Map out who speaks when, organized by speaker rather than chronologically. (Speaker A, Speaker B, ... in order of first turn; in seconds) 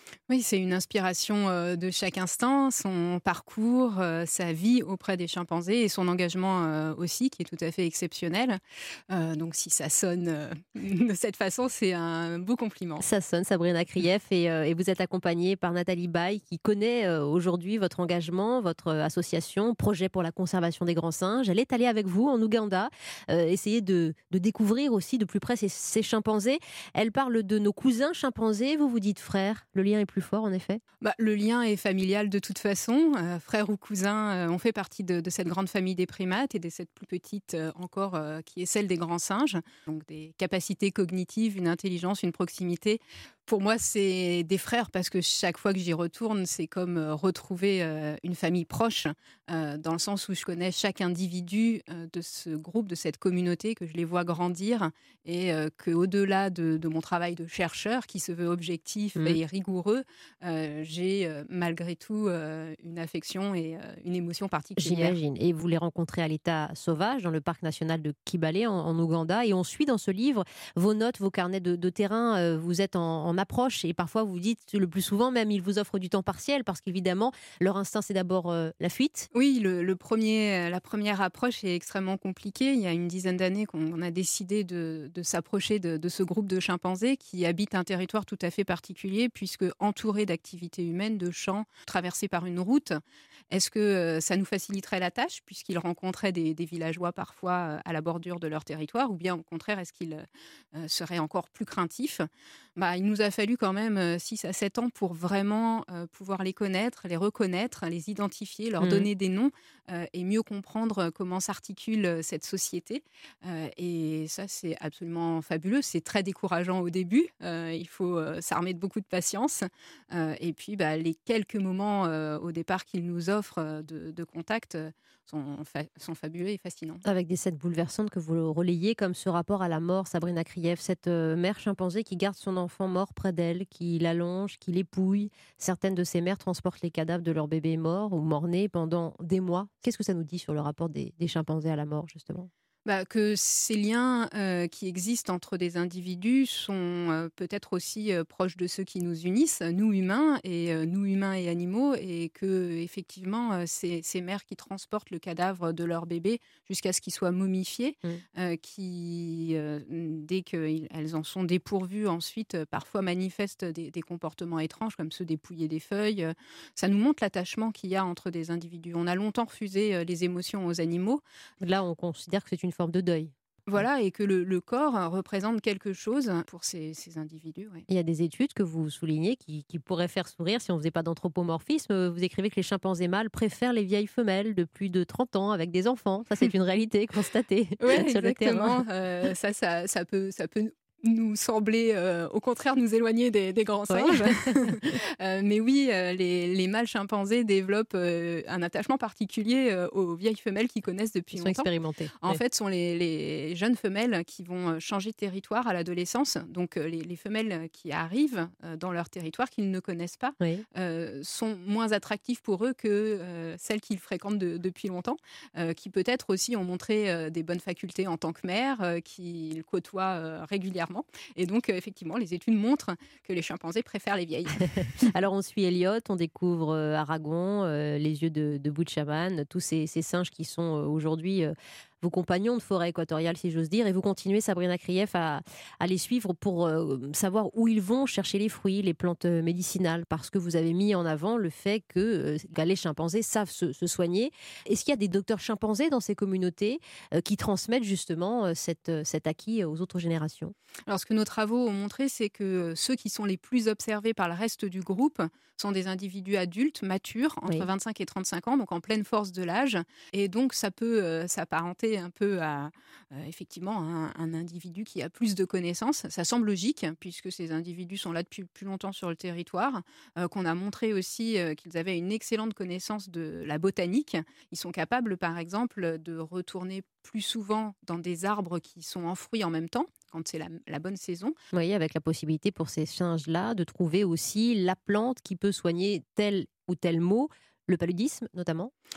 Speaker A: 0.3-13.1, 31.0-65.2, 79.3-93.0, 93.5-102.2, 102.8-127.0, 142.8-171.2, 173.7-177.8, 187.8-225.0, 250.9-281.4
Speaker B: 13.0-30.8, 64.8-79.3, 108.8-109.1, 127.0-142.5, 171.6-173.3, 177.9-188.8, 193.9-195.0, 201.3-202.4, 224.6-250.5, 281.5-288.7